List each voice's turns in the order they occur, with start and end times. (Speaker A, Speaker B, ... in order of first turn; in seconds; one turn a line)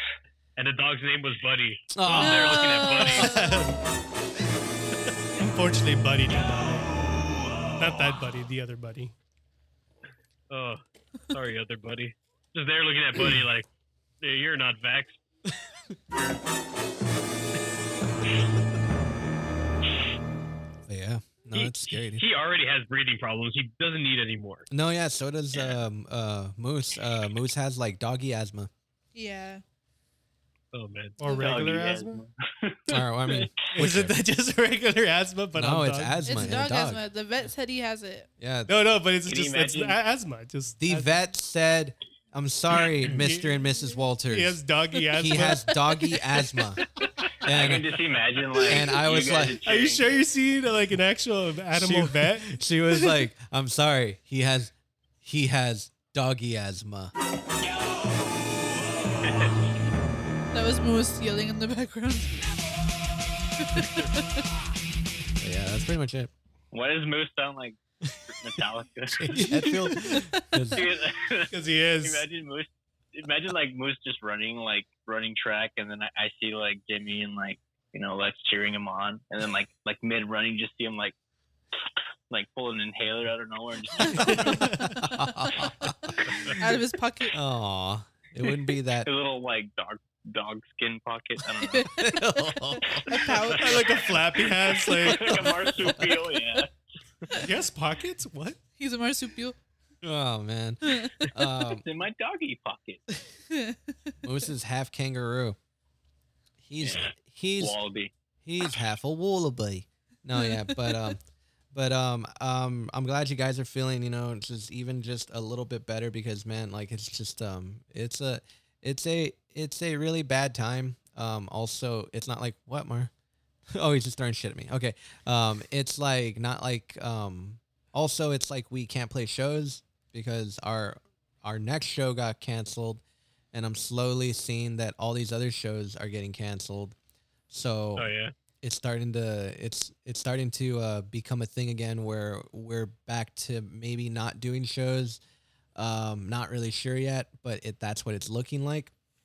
Speaker A: 0.6-3.3
Speaker B: 1.9-3.3
Speaker C: 2.2-3.6
Speaker D: 3.3-3.8
Speaker D: 5.4-6.9
Speaker D: 7.8-9.1
Speaker A: 10.5-13.7
Speaker A: 14.2-15.2
Speaker B: 20.9-22.3
Speaker A: 21.5-24.7
Speaker B: 24.7-28.7
Speaker E: 25.5-25.8
Speaker C: 29.1-29.6
Speaker A: 30.7-31.2
Speaker D: 31.2-32.2
Speaker E: 31.2-33.0
Speaker B: 32.9-34.2
Speaker D: 33.7-36.4
Speaker B: 35.5-37.0
Speaker C: 36.2-38.3
Speaker B: 38.4-38.8
Speaker D: 38.7-41.2
Speaker E: 39.3-40.0
Speaker B: 40.8-44.6
Speaker D: 43.1-43.5
Speaker D: 44.3-45.7
Speaker B: 45.1-46.8
Speaker B: 47.4-48.0
Speaker E: 47.4-50.1
Speaker B: 48.6-49.6
Speaker D: 49.6-53.2
Speaker B: 51.7-57.1
Speaker E: 57.7-58.0
Speaker E: 59.2-59.5
Speaker C: 60.5-62.6
Speaker C: 63.6-64.4
Speaker B: 65.4-66.3
Speaker E: 66.7-67.8
Speaker E: 68.3-69.7
Speaker B: 69.2-70.9
Speaker C: 69.6-70.4
Speaker E: 70.7-81.2
Speaker D: 71.5-72.2
Speaker E: 82.3-84.8
Speaker C: 84.1-84.6
Speaker B: 84.2-86.2
Speaker C: 86.6-87.3
Speaker B: 87.3-89.1
Speaker E: 89.0-91.9
Speaker C: 91.8-92.2
Speaker B: 91.9-93.3
Speaker C: 93.1-94.0
Speaker D: 93.6-95.5
Speaker E: 95.0-96.7
Speaker B: 95.3-96.2
Speaker D: 97.4-98.6
Speaker C: 98.8-99.6
Speaker B: 100.0-101.8
Speaker C: 100.8-101.2
Speaker E: 101.8-103.0
Speaker C: 103.5-103.9
Speaker B: 104.2-105.6
Speaker B: 106.6-107.8
Speaker E: 106.8-108.1
Speaker B: 108.5-111.2
Speaker C: 110.3-111.1
Speaker B: 111.7-123.1
Speaker B: 123.7-133.0
Speaker B: 133.5-136.9
Speaker B: 137.5-138.1
Speaker A: 138.0-138.3
Speaker B: 138.6-145.2
Speaker B: 145.8-148.9